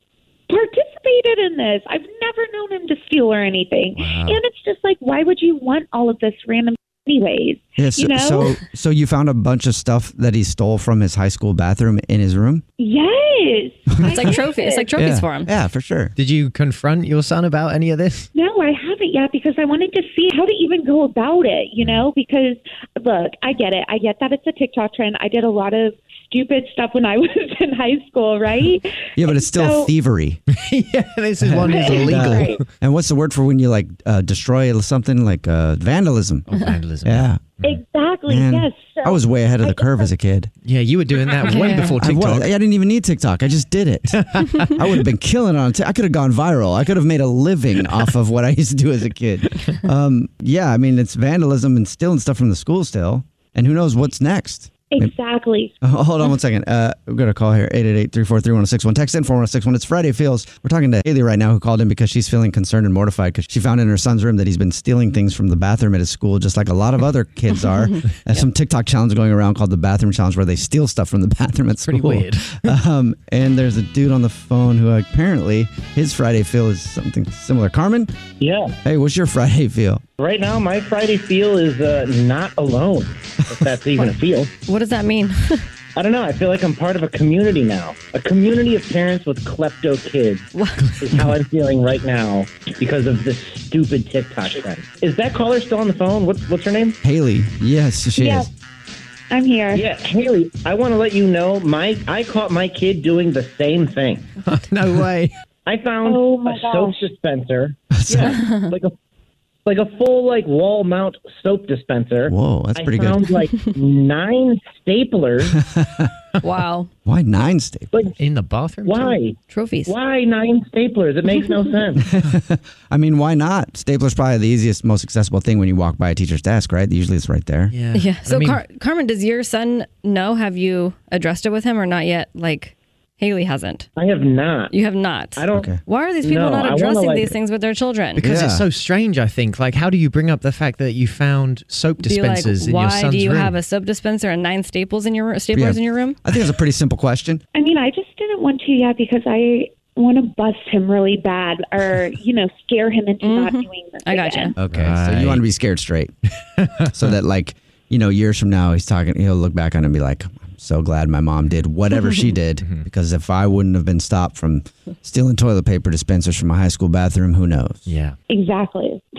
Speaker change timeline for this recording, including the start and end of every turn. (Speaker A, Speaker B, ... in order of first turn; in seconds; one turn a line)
Speaker A: 0.5-8.6
Speaker B: 3.9-4.4
Speaker C: 7.8-12.6
Speaker A: 12.8-14.9
Speaker C: 14.0-14.3
Speaker D: 14.1-15.5
Speaker C: 14.9-16.1
Speaker B: 16.2-18.3
Speaker A: 18.3-29.9
Speaker C: 29.1-30.4
Speaker B: 30.5-32.6
Speaker C: 31.4-36.5
Speaker A: 31.7-32.6
Speaker B: 36.5-37.8
Speaker C: 37.0-37.5
Speaker A: 37.6-40.1
Speaker C: 38.3-40.5
Speaker B: 40.6-42.5
Speaker D: 41.5-41.9
Speaker C: 42.0-55.1
Speaker B: 44.1-44.7
Speaker A: 54.9-55.7
Speaker C: 55.8-78.1
Speaker B: 71.9-72.7
Speaker E: 78.4-78.8
Speaker C: 78.8-80.0
Speaker E: 80.2-84.5
Speaker D: 84.7-85.6
Speaker E: 86.0-90.5
Speaker D: 90.5-90.8
Speaker E: 91.0-97.0
Speaker C: 97.0-98.5
Speaker A: 98.2-98.5
Speaker A: 99.3-99.8
Speaker E: 99.7-104.3
Speaker B: 104.5-105.3
Speaker E: 105.7-108.9
Speaker A: 106.0-107.0
Speaker C: 108.0-108.4
Speaker D: 108.2-108.7
Speaker E: 109.7-115.6
Speaker C: 112.3-113.3
Speaker C: 115.7-116.1
Speaker D: 116.4-116.9
Speaker C: 117.0-117.9
Speaker B: 118.2-119.2
Speaker E: 118.8-122.0
Speaker D: 119.5-119.9
Speaker C: 122.1-127.7
Speaker B: 127.7-128.6
Speaker D: 127.9-133.9
Speaker E: 133.9-134.7
Speaker D: 134.7-138.2
Speaker E: 135.3-135.7
Speaker C: 135.5-135.8
Speaker E: 136.2-137.3
Speaker B: 138.2-143.6
Speaker C: 138.2-138.6
Speaker D: 142.0-146.2
Speaker C: 145.5-147.4
Speaker A: 147.5-154.5
Speaker D: 153.2-154.5
Speaker C: 154.6-156.1
Speaker B: 154.7-155.4
Speaker B: 156.6-156.9
Speaker C: 156.9-167.8
Speaker B: 167.9-168.2
Speaker A: 168.3-169.0